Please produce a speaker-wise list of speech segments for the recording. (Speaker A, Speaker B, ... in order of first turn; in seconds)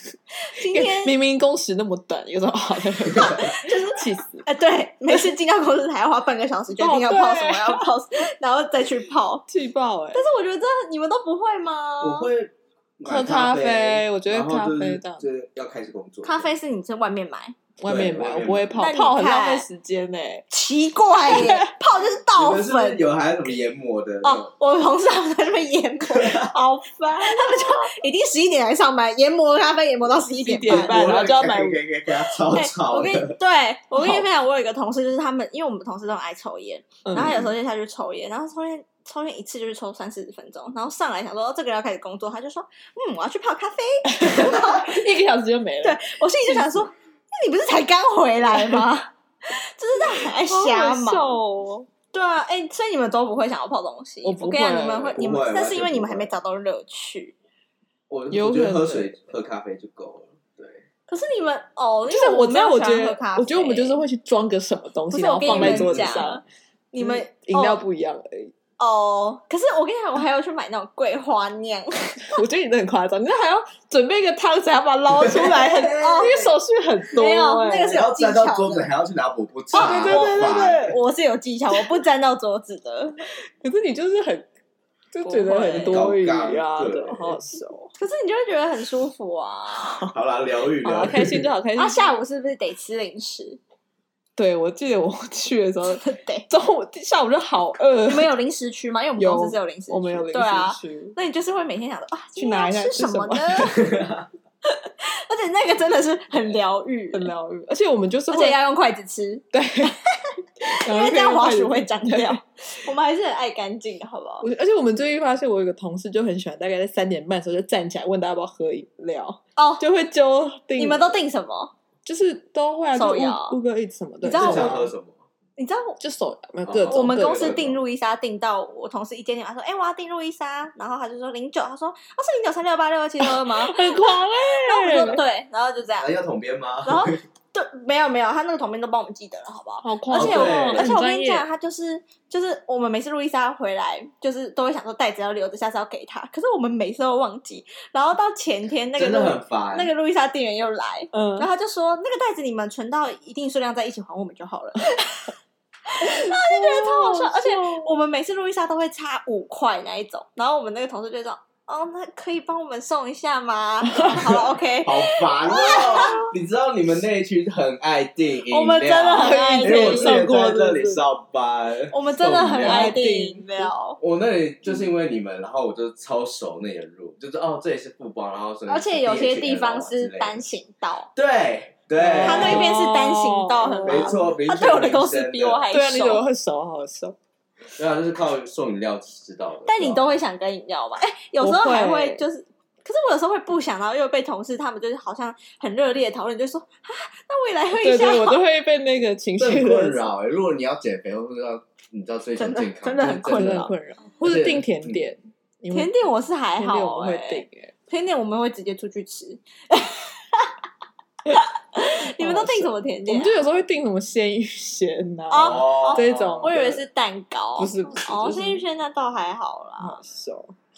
Speaker A: 0.3-1.1, 3.1-9.5, 10.1-12.3, 16.2-17.6, 18.8-19.6, 20.5-23.1, 24.2-31.1, 32.3-45.0, 45.8-57.3, 61.1-64.0, 65.1-67.8, 68.8-72.4, 76.0-76.5, 77.1-78.9, 79.7-83.2, 85.2-86.1, 88.0-90.1, 91.8-93.6, 95.9-96.5, 98.1-103.9, 104.7-107.3, 108.3-114.5, 119.6-119.8, 120.8-121.7, 122.9-123.6, 124.2-124.9, 125.6-126.0, 126.9-136.1, 136.8-155.3, 155.9-166.3, 168.5-170.2, 171.9-174.0, 178.7-181.1, 182.2-186.2, 189.7-198.4, 202.4-203.7, 205.7-210.5, 211.3-213.3, 215.3-220.0
Speaker B: 0.7-4.5, 6.8-7.9, 9.5-10.2, 13.0-15.2, 17.8-20.5, 21.2-21.7, 27.2-27.9, 30.4-31.8, 33.9-34.3, 37.0-37.3, 44.1-46.9, 48.5-48.8, 50.2-51.9, 54.2-55.4, 58.3-59.2, 62.1-66.4, 67.0-68.5, 72.3-78.0, 79.7-81.0, 83.5-84.5, 85.1-87.9, 89.8-90.1, 90.8-92.2, 94.4-98.3, 99.2-101.2, 102.4-103.8, 107.1-108.6, 109.5-110.0, 110.8-112.4, 114.4-121.2, 122.0-124.9, 126.0-127.6, 133.2-135.2, 139.8-141.5, 151.1-151.5, 156.0-157.9, 163.8-164.4, 169.2-171.0, 172.6-173.7, 182.0-184.2, 185.7-187.2, 191.4-192.2, 197.8-200.1, 202.8-205.9, 206.6-207.7, 212.2-216.8, 217.6-218.6, 219.8-220.6
Speaker C: 12.0-16.5, 17.9-18.7, 22.3-24.5, 26.1-26.5, 30.7-33.4, 37.1-37.6, 55.2-56.3, 58.1-60.8, 65.4-66.3, 75.1-76.5, 77.8-81.0, 85.8-87.4, 90.1-91.5, 103.6-104.3, 124.3-125.2, 126.7-127.8, 136.0-137.1, 140.1-140.9, 149.0-149.9, 164.8-173.0, 174.0-180.5, 181.2-182.7, 183.8-185.7, 187.8-190.1, 199.4-205.0, 215.4-216.7